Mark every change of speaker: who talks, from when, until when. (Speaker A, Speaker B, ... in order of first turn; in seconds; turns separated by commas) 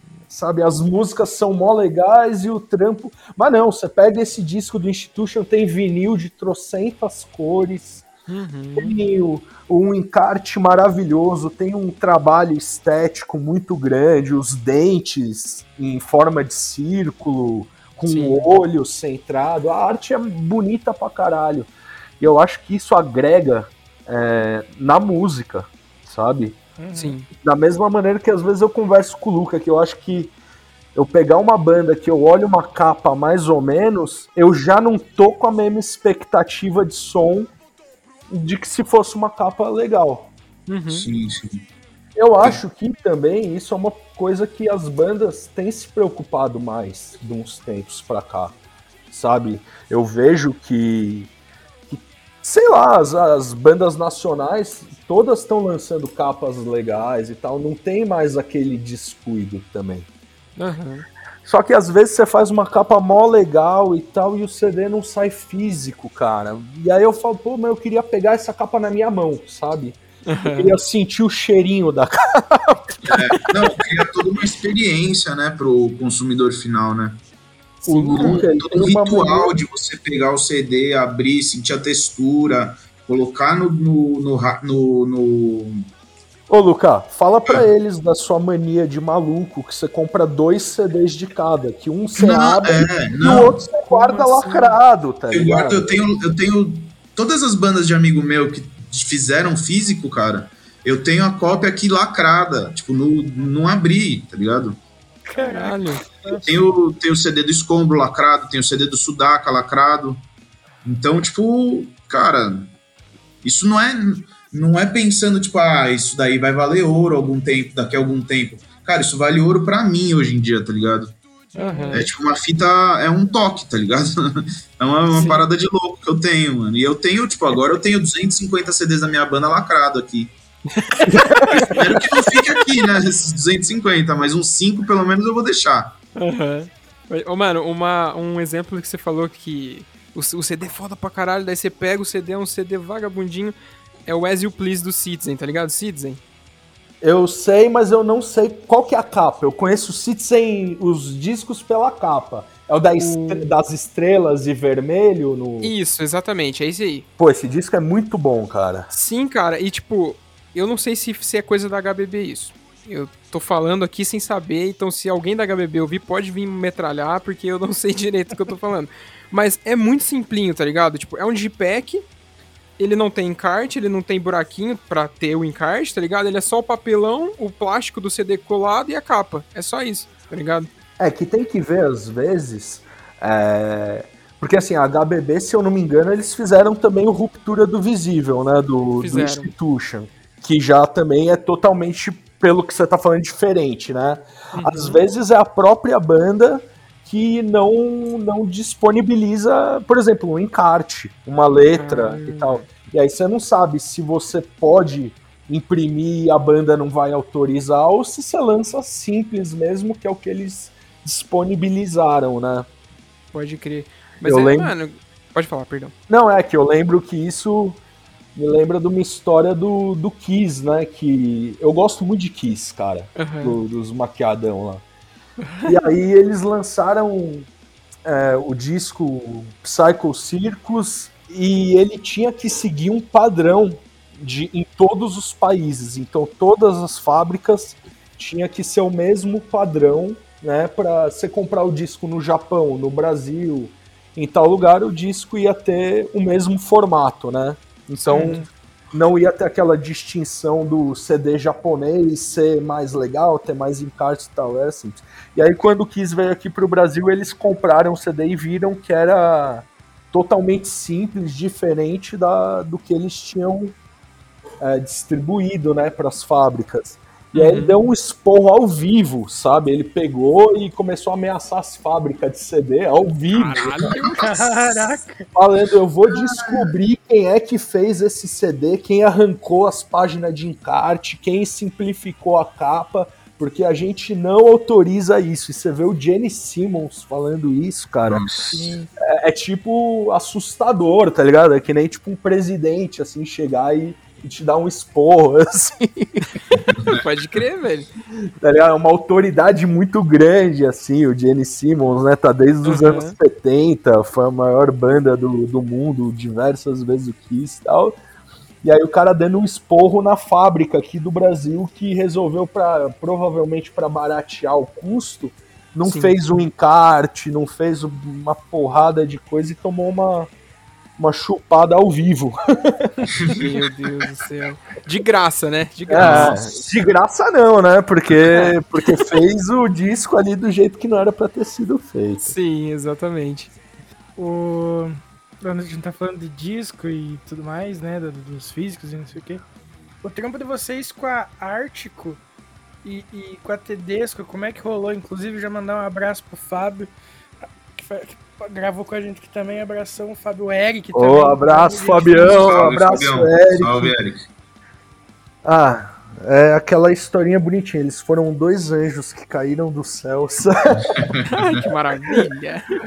Speaker A: 0.3-8.1, Speaker B: 8.3-9.0, Speaker A: 8.8-26.6, Speaker B: 18.1-18.6, Speaker C: 26.8-27.1, Speaker B: 26.9-27.3, Speaker A: 27.4-30.3, Speaker A: 30.9-37.5, Speaker A: 38.3-40.3, Speaker B: 40.7-41.0, Speaker D: 40.9-41.6, Speaker A: 42.1-48.5, Speaker A: 49.1-51.3, Speaker A: 51.9-60.1, Speaker B: 60.5-61.0, Speaker A: 61.4-73.2, Speaker B: 70.2-70.8, Speaker D: 73.0-77.2, Speaker B: 77.8-78.4, Speaker A: 77.9-79.5, Speaker D: 78.1-85.8, Speaker A: 86.5-96.0, Speaker D: 92.2-93.6, Speaker B: 93.9-94.8, Speaker D: 95.3-104.8, Speaker C: 105.3-106.6, Speaker B: 105.3-106.1, Speaker D: 106.4-110.2, Speaker D: 110.8-112.7, Speaker D: 113.4-121.2, Speaker C: 121.5-122.1, Speaker B: 121.6-122.0, Speaker D: 121.9-130.3, Speaker B: 125.1-125.4, Speaker B: 130.7-131.8, Speaker A: 131.1-131.7, Speaker D: 131.7-135.9, Speaker B: 136.2-143.5, Speaker B: 144.1-146.2, Speaker A: 147.0-155.7, Speaker B: 153.0-153.5, Speaker B: 155.6-157.1, Speaker A: 157.2-158.9, Speaker B: 158.9-172.1, Speaker B: 172.8-180.7, Speaker A: 181.0-212.7, Speaker B: 189.0-189.5, Speaker B: 194.5-195.0, Speaker B: 201.7-202.7, Speaker B: 213.3-215.9, Speaker A: 214.2-214.7, Speaker A: 216.1-217.8, Speaker A: 218.3-224.8, Speaker B: 223.2-223.6, Speaker B: 225.4-225.7, Speaker A: 225.6-227.5, Speaker A: 228.0-263.8, Speaker B: 248.1-248.4, Speaker C: 248.1-248.4, Speaker A: 264.6-274.0, Speaker B: 267.3-267.8, Speaker B: 273.3-274.2, Speaker C: 273.9-275.2, Speaker A: 275.3-288.3, Speaker D: 276.1-276.7, Speaker D: 288.1-288.6, Speaker C: 288.5-288.8, Speaker A: 289.0-296.2, Speaker D: 296.7-297.0, Speaker B: 296.8-297.9, Speaker A: 298.4-308.0, Speaker B: 302.6-303.2, Speaker A: 308.6-320.3, Speaker B: 315.8-316.1, Speaker A: 321.0-323.6, Speaker B: 323.3-326.6, Speaker A: 325.9-332.3, Speaker D: 326.0-326.4, Speaker B: 328.3-329.0, Speaker B: 332.2-333.5, Speaker C: 334.2-339.4, Speaker C: 340.0-342.2, Speaker C: 342.8-346.9, Speaker C: 347.7-352.4, Speaker A: 350.9-353.9, Speaker D: 352.2-354.2, Speaker A: 355.4-361.0, Speaker D: 360.9-361.3, Speaker B: 361.3-362.6